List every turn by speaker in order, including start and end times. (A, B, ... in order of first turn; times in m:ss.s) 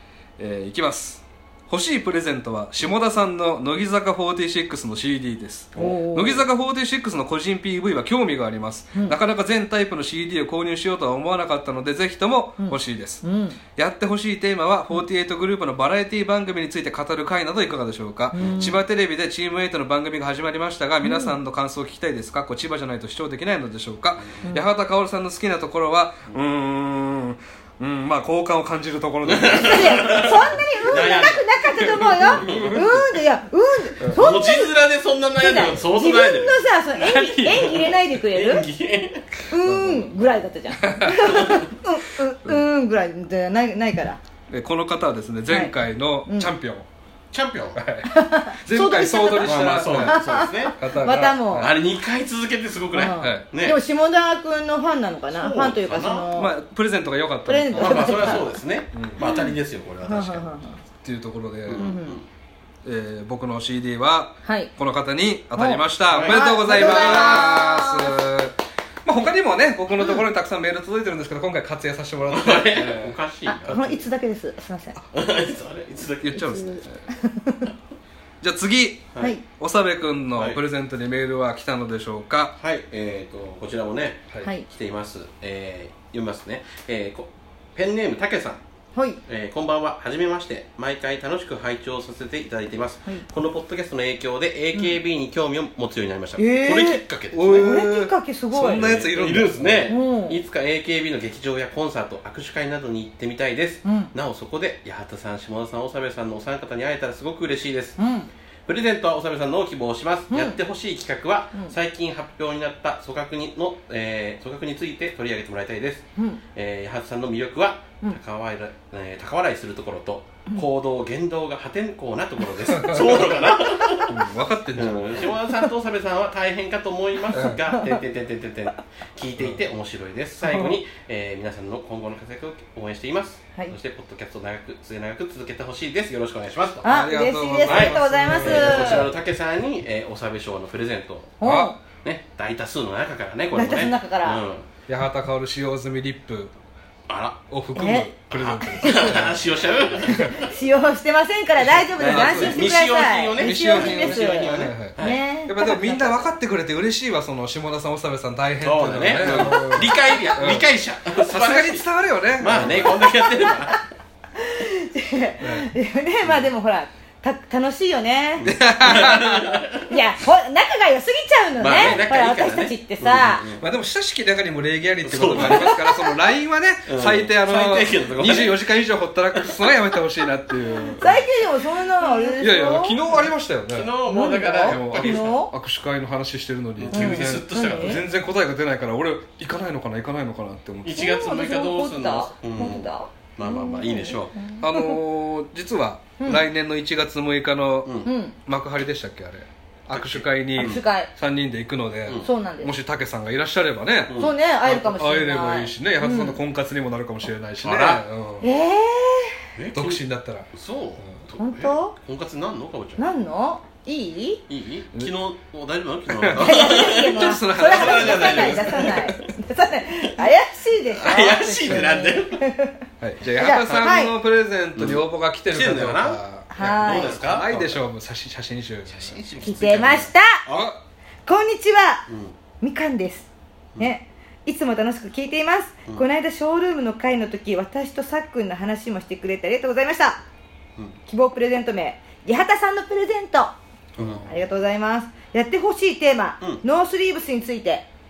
0:00.4-0:13.2 A
0:05.8-0:06.4 B
0:12.6-0:13.6 B
0:13.8-0:30.2 A
0:18.3-0:18.8 B
0:18.4-0:18.7 C
0:21.0-0:21.4 B
0:24.4-0:24.7 B
0:29.3-0:31.5 C
0:29.6-0:34.8 B
0:31.8-0:33.0 A
0:32.2-0:33.0 C
0:34.0-0:34.3 A
0:34.1-0:39.3 C
0:35.4-0:38.6 B
0:39.5-0:44.2 B
0:39.6-0:40.2 A
0:40.8-0:41.4 A
0:41.2-0:41.7 C
0:44.5-0:46.9 A
0:45.5-0:46.5 B
0:47.3-0:47.8 C
0:47.8-0:51.7 A
0:48.0-0:51.7 B
0:49.4-0:53.8 C
0:52.9-0:56.6 B
0:53.2-0:53.4 A
0:55.3-0:56.3 C
0:56.4-0:59.2 A
0:57.5-0:58.5 B
0:57.8-1:00.6 C
0:59.2-1:00.8 B
1:01.0-1:01.9 A
1:01.7-1:02.3 C
1:01.8-1:02.2 B
1:02.8-1:13.2 A
1:04.4-1:04.7 B
1:05.6-1:08.2 B
1:06.1-1:07.5 C
1:12.3-1:14.0 C
1:13.5-1:15.0 B
1:15.1-1:16.6 C
1:16.2-1:17.0 A
1:16.4-1:17.7 B
1:18.4-1:22.6 A
1:22.6-1:28.6 C
1:29.0-1:29.2 B
1:29.3-1:37.7 C
1:36.4-1:39.0 B
1:37.3-1:39.9 A
1:38.6-1:48.0 C
1:39.9-1:40.4 B
1:43.8-1:44.1 B
1:48.0-1:48.3 B
1:48.7-2:04.2 C
1:50.3-1:50.6 B
2:02.7-2:03.3 A
2:04.0-2:05.2 A
2:04.8-2:16.9 C
2:07.3-2:07.6 A
2:07.7-2:08.0 B
2:10.4-2:10.8 B
2:16.8-2:19.1 B
2:16.8-2:19.1 A
2:17.6-2:21.4 C
2:21.4-2:21.8 B
2:21.4-2:21.8 A
2:22.0-2:24.7 C
2:23.6-2:24.4 B
2:24.9-2:26.5 A
2:27.1-2:27.4 C
2:27.5-2:30.4 A
2:27.8-2:29.2 B
2:28.3-2:30.5 C
2:30.0-2:36.3 B
2:31.9-2:32.7 A
2:32.0-2:35.2 C
2:33.4-2:40.7 A
2:38.6-2:43.8 C
2:41.2-2:43.0 A
2:42.6-2:43.8 B
2:44.4-2:48.5 B
2:45.4-2:45.7 A
2:48.4-2:49.9 C
2:48.4-2:49.6 A
2:49.9-2:53.5 B
2:51.6-2:53.6 C
2:51.8-2:52.0 A
2:53.6-3:01.2 A
2:55.0-2:55.8 C
2:55.4-2:56.2 B
2:56.9-2:58.6 C
2:59.4-2:59.7 C
3:01.0-3:03.2 B
3:02.4-3:03.9 A
3:03.7-3:05.4 C
3:04.0-3:05.5 B
3:04.6-3:11.1 A
3:06.8-3:08.0 C
3:06.9-3:08.0 B
3:10.8-3:14.4 C
3:10.9-3:15.0 B
3:14.6-3:28.5 A
3:16.2-3:16.4 B
3:17.8-3:18.1 C
3:18.0-3:18.4 B
3:19.9-3:20.8 C
3:20.6-3:21.1 B
3:22.2-3:22.8 B
3:24.1-3:24.4 C
3:24.2-3:26.4 B
3:27.6-3:28.0 C
3:28.4-3:29.4 B
3:29.6-3:33.0 C
3:29.7-3:30.5 A
3:31.4-3:32.0 B
3:33.0-3:34.4 B
3:34.5-3:39.0 C
3:36.1-3:39.2 A
3:36.4-3:42.8 B
3:41.0-3:42.4 C
3:43.0-3:49.2 A
3:43.4-3:44.1 B
3:44.8-3:47.8 C
3:46.5-3:47.2 B
3:48.9-3:50.7 C
3:49.4-3:50.4 B
3:50.5-3:50.8 A
3:51.3-3:52.1 B
3:52.1-3:52.4 C
3:52.6-4:00.2 B
4:01.1-4:03.6 B
4:04.0-4:04.4 A
4:04.2-4:07.9 B